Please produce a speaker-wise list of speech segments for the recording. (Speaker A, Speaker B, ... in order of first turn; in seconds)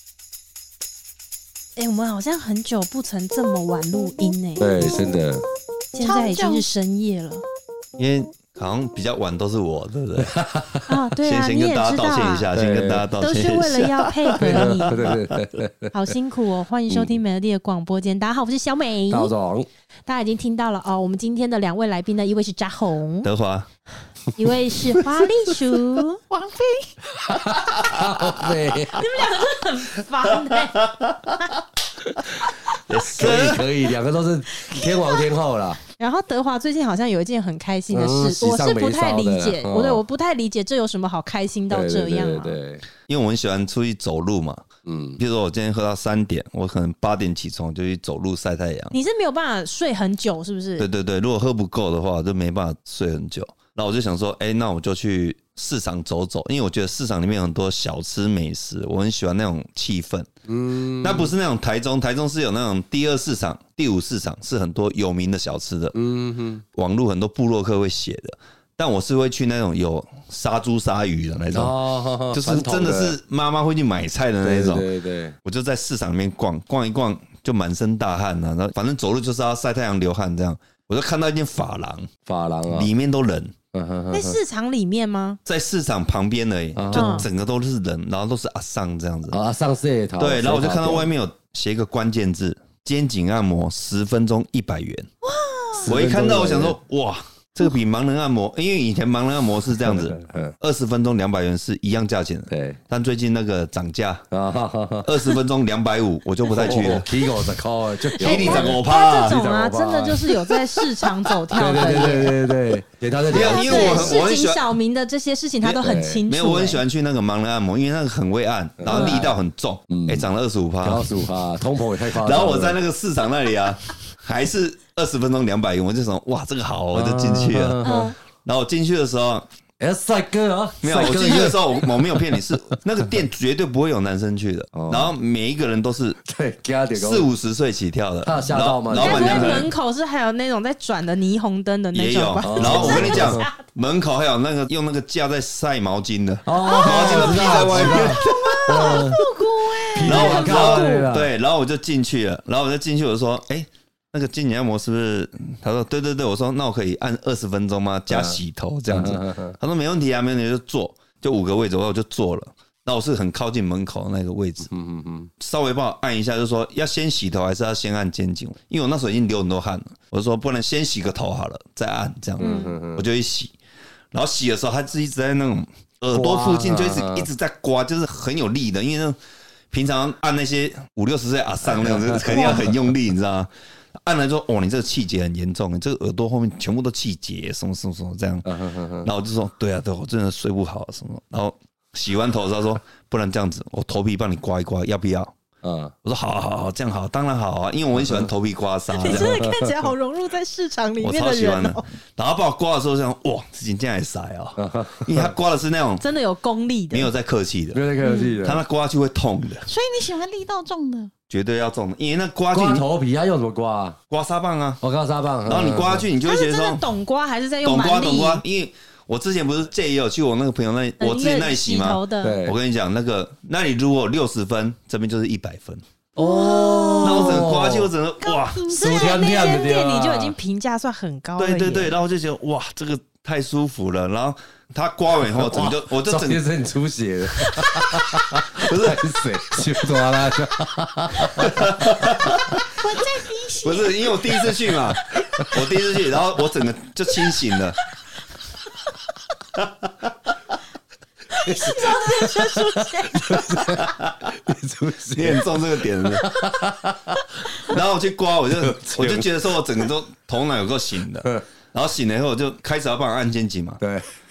Speaker A: 1.8-4.9, 5.9-7.4, 10.9-12.5, 13.2-15.0, 15.9-19.3, 20.1-23.3, 24.4-26.2, 29.0-30.8, 34.7-35.2, 36.0-42.6, 48.9-50.9, 84.1-85.4, 86.9-87.3, 95.4-95.8, 108.1-112.5, 113.3-116.8, 118.9-119.2, 127.8-128.2, 139.0-143.5, 149.4-151.0, 172.4-172.8, 182.3-182.7, 198.9-201.9, 206.0-207.1, 208.0-208.3, 216.2-218.4, 221.0-222.3, 226.2-227.3, 228.7-231.9, 237.4-237.9, 251.3-253.6
Speaker B: 4.6-5.4, 10.2-10.9, 12.5-13.1, 14.4-15.9, 19.1-19.7, 27.1-29.1, 32.2-32.5, 33.1-35.8, 37.9-40.0, 41.7-42.8, 44.9-45.2, 60.5-61.3, 65.9-66.6, 71.5-73.2, 74.4-75.3, 82.3-82.9, 83.7-84.4, 86.8-87.3, 89.3-91.1, 95.8-96.8, 99.8-100.5, 102.5-102.8, 104.3-105.3, 106.5-110.6, 111.5-114.2, 115.7-116.2, 118.8-119.4, 119.9-120.3, 120.8-122.8, 126.9-128.1, 129.8-132.4, 134.7-135.1, 136.2-137.3, 138.2-139.7, 142.4-143.5, 146.5-149.2, 149.9-151.3, 158.1-158.4, 158.9-159.6, 164.7-165.3, 172.4-173.0, 176.1-177.3, 181.7-182.8, 188.4-189.1, 195.6-195.9, 199.1-199.7, 204.6-205.3, 207.7-208.6, 212.5-214.0, 214.8-216.1, 222.2-222.6, 226.2-227.9, 228.7-230.4, 235.2-241.7, 251.8-252.6, 253.1-257.8, 258.6-259.5, 263.8-264.1
Speaker C: 6.0-6.6, 26.3-26.9, 147.8-150.6, 208.0-208.3, 209.7-211.1, 226.2-227.1, 228.2-229.5, 242.8-244.5, 251.4-252.7
Speaker D: 8.0-10.3, 11.2-15.4, 23.2-23.7, 30.7-31.3, 32.9-33.7, 43.1-49.0, 50.8-60.3, 60.9-66.0, 66.7-71.8, 72.3-74.9, 75.4-82.1, 82.7-83.6, 85.5-89.4, 90.2-95.1, 95.8-104.2, 105.0-107.1, 108.2-109.4, 113.3-114.6, 116.3-121.3, 122.2-127.8, 128.4-129.5, 130.8-136.2, 136.9-139.7, 141.9-149.0, 150.0-164.7, 165.4-173.5, 174.1-179.2, 179.7-183.5, 184.0-188.5, 189.0-195.4, 196.0-199.4, 201.0-206.1, 206.9-207.8, 208.4-209.7, 211.3-212.9, 214.1-214.8, 215.4-216.8, 217.6-225.8, 227.0-228.7, 231.4-236.4, 238.6-239.2, 241.4-242.6, 243.6-247.8, 249.6-249.9, 253.8-254.3, 255.1-256.3, 257.7-263.8